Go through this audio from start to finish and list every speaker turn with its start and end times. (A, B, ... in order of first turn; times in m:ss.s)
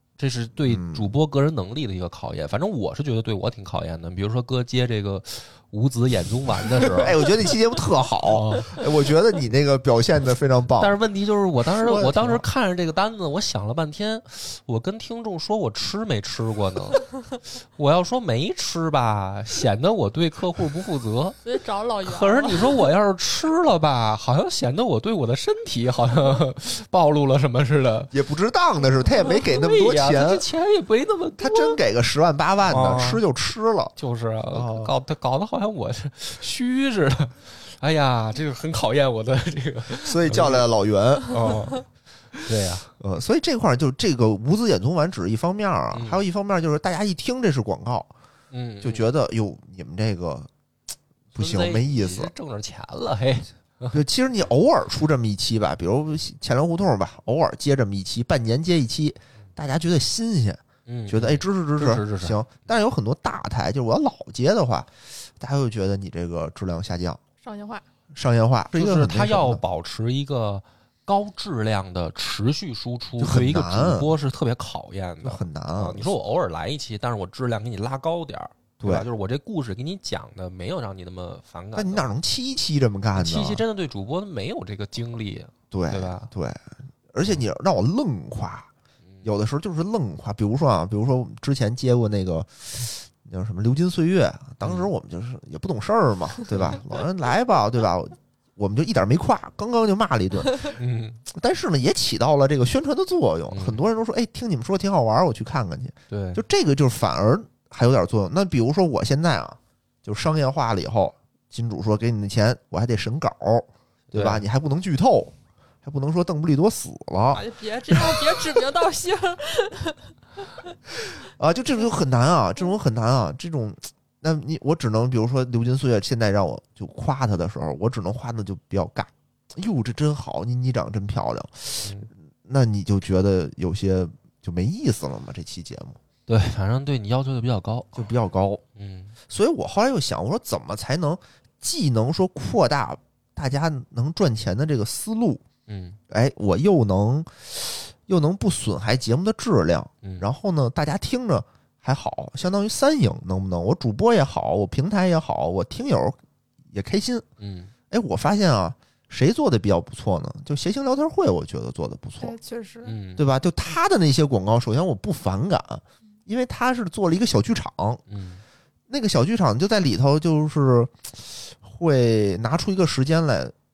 0:00.2-0:07.3 A
0:00.6-0:01.1 B
0:06.8-0:11.0 B
0:08.3-0:08.8 A
0:10.8-0:21.4 A
0:11.8-0:12.4 B
0:21.4-0:22.9 C
0:22.0-0:28.1 A
0:28.1-0:30.4 B
0:29.2-0:31.8 A
0:31.4-0:34.0 B
0:32.7-0:33.2 A
0:34.0-0:40.7 A
0:34.5-0:34.9 B
0:40.0-0:41.7 B
0:41.3-0:42.9 A
0:43.0-0:48.1 B
0:45.9-0:46.2 A
0:48.5-0:49.1 A
0:48.8-0:50.5 B
0:51.3-0:52.3 B
0:51.4-0:54.0 A
0:53.9-1:07.2 B
1:00.9-1:02.4 A
1:07.4-1:07.8 C
1:08.1-1:09.6 B
1:08.8-1:22.1 A
1:13.2-1:14.1 B
1:15.2-1:16.1 B
1:18.8-1:19.1 B
1:21.8-1:23.6 B
1:23.2-1:26.3 A
1:25.7-1:28.7 B
1:29.2-1:58.6 B
1:34.6-1:34.9 A
1:40.8-1:41.2 A
1:43.5-1:43.8 A
1:46.1-1:46.4 A
1:54.1-1:54.4 A
1:57.3-2:00.1 C
2:01.2-2:16.0 B
2:11.8-2:12.1 A
2:16.3-2:18.1 A
2:18.0-2:18.6 B
2:18.8-2:19.2 A
2:19.3-2:25.4 B
2:25.7-2:26.0 A
2:26.1-2:36.2 B
2:30.0-2:30.3 A
2:36.7-2:37.2 B
2:37.4-2:37.7 A
2:37.9-2:42.4 B
2:42.2-2:43.0 C
2:42.8-2:43.3 A
2:43.2-2:48.0 B
2:48.1-2:48.4 A
2:48.9-2:53.5 B